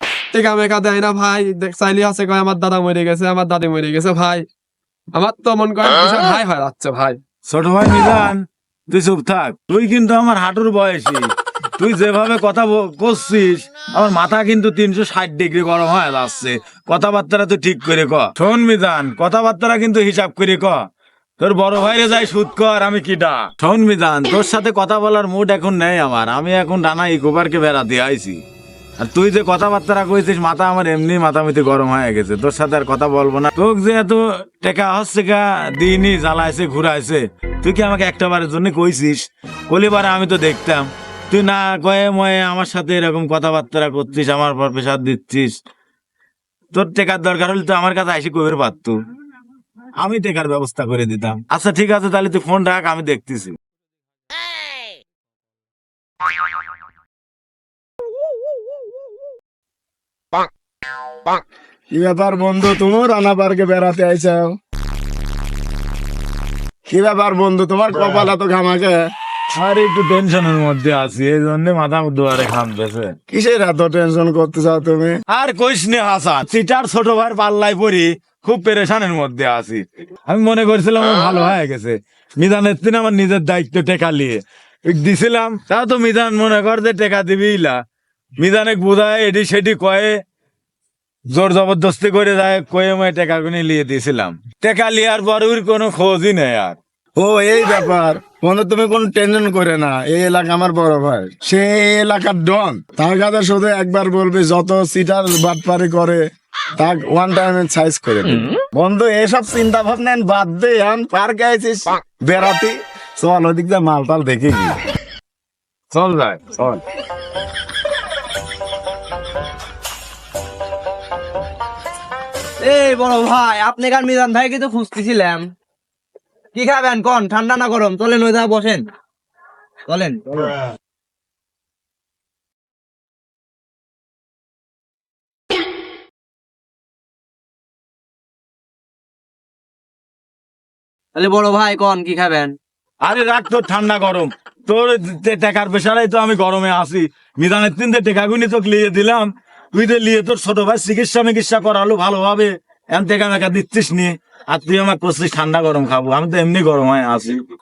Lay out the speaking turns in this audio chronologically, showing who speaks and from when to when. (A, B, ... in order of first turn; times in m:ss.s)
0:00.3-0:04.4 A
0:05.1-0:07.2 A
0:07.4-0:20.8 B
0:21.4-0:28.4 B
0:29.0-0:45.6 B
0:46.7-0:49.0 B
0:50.0-0:53.6 B
1:01.9-1:04.6 C
1:06.9-1:09.0 C
1:08.0-1:08.3 B
1:09.5-1:13.2 B
1:13.3-1:15.2 C
1:15.3-1:27.8 B
1:28.4-1:30.2 B
1:31.3-1:36.8 B
1:37.2-1:46.2 C
1:46.8-1:54.8 C
1:55.9-1:56.8 B
2:02.6-2:05.5 D
2:06.5-2:08.9 D
2:09.9-2:10.6 D
2:21.1-2:22.6 D
2:23.0-2:37.4 B